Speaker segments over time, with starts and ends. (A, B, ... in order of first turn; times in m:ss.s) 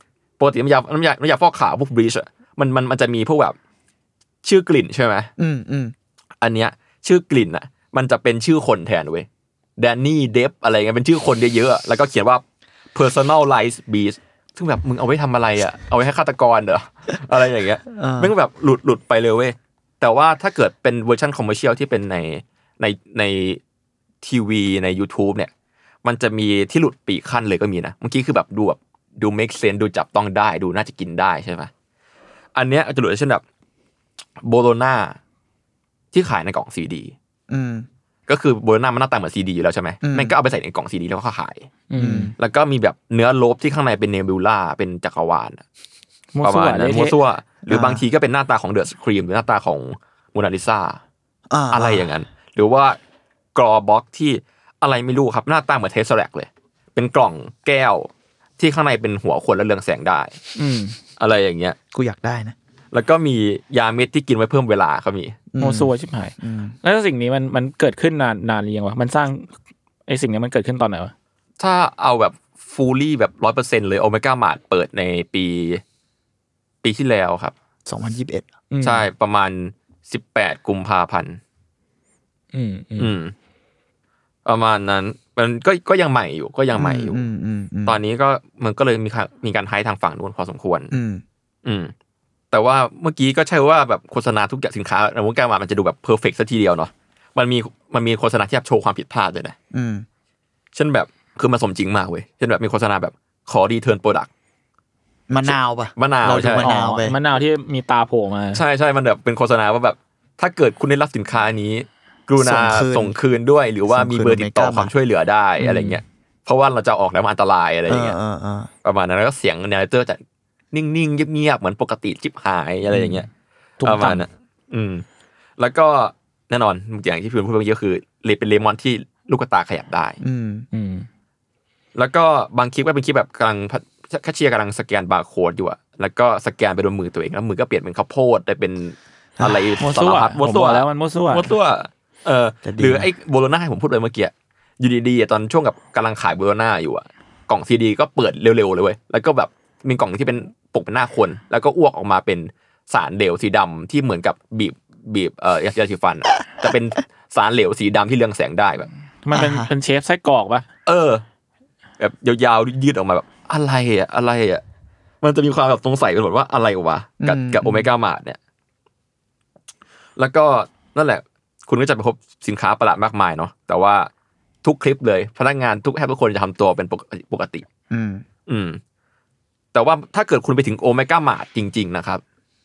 0:00.4-0:03.6 A
0:04.4-0:05.3 A
0:05.4-0:05.9 B
0:06.4-0:09.3 A
0:09.8-0:12.4 A
0:12.9-0:23.6 A
0:17.9-0:18.3 B
0:24.2-0:25.5 A
0:26.0-0:31.7 A
0:32.6-0:33.4 A
0:34.4-0:35.2 A
0:36.1-0:37.1 A
0:37.5-0:37.9 B
0:38.3-0:41.7 A
0:40.0-0:40.3 B
0:41.9-0:42.3 C
0:42.0-0:42.3 B
0:42.4-0:45.6 A
0:46.3-0:47.2 C
0:46.4-0:51.0 A
0:47.6-0:48.0 B
0:51.5-0:52.1 B
0:51.7-0:53.0 A
0:53.6-1:00.4 A
1:00.6-1:01.0 C
1:01.2-1:01.8 A
1:01.9-1:02.6 B
1:02.9-1:05.4 A
1:05.5-1:06.8 B
1:05.6-1:09.5 C
1:10.1-1:11.1 C
1:11.6-1:15.8 A
1:16.8-1:17.5 A
1:17.9-1:18.5 B
1:18.7-1:19.1 C
1:18.8-1:21.4 A
1:22.5-1:23.1 C
1:23.0-1:23.3 A
1:24.4-1:27.3 A
1:26.7-1:28.0 B
1:27.9-1:30.9 A
1:30.9-1:31.2 B
1:31.6-1:31.9 A
1:32.5-1:39.6 A
1:39.7-1:40.1 B
1:40.7-1:44.3 A
1:45.3-1:47.2 B
1:45.4-1:46.7 A
1:46.6-1:48.6 C
1:48.5-1:58.2 A
1:52.4-1:53.2 B
1:53.9-1:54.9 B
1:55.6-1:56.0 C
1:57.9-1:58.7 B
1:58.8-2:00.2 A
2:00.7-2:03.3 A
2:02.9-2:03.2 B
2:03.8-2:04.2 C
2:03.8-2:05.0 A
2:05.6-2:10.2 A
2:10.2-2:10.7 B
2:10.7-2:11.1 C
2:12.0-2:38.9 A
2:19.4-2:19.8 B
2:19.8-2:21.5 C
2:22.6-2:23.1 B
2:39.2-2:40.7 C
2:39.3-2:39.7 B
2:40.9-2:41.2 A
2:42.0-2:44.6 A
2:45.2-2:48.4 A
2:47.2-2:47.8 B
2:50.2-2:54.1 A
2:54.6-2:57.7 A
2:57.9-2:58.2 B
2:58.5-2:58.8 A
2:59.7-3:02.2 A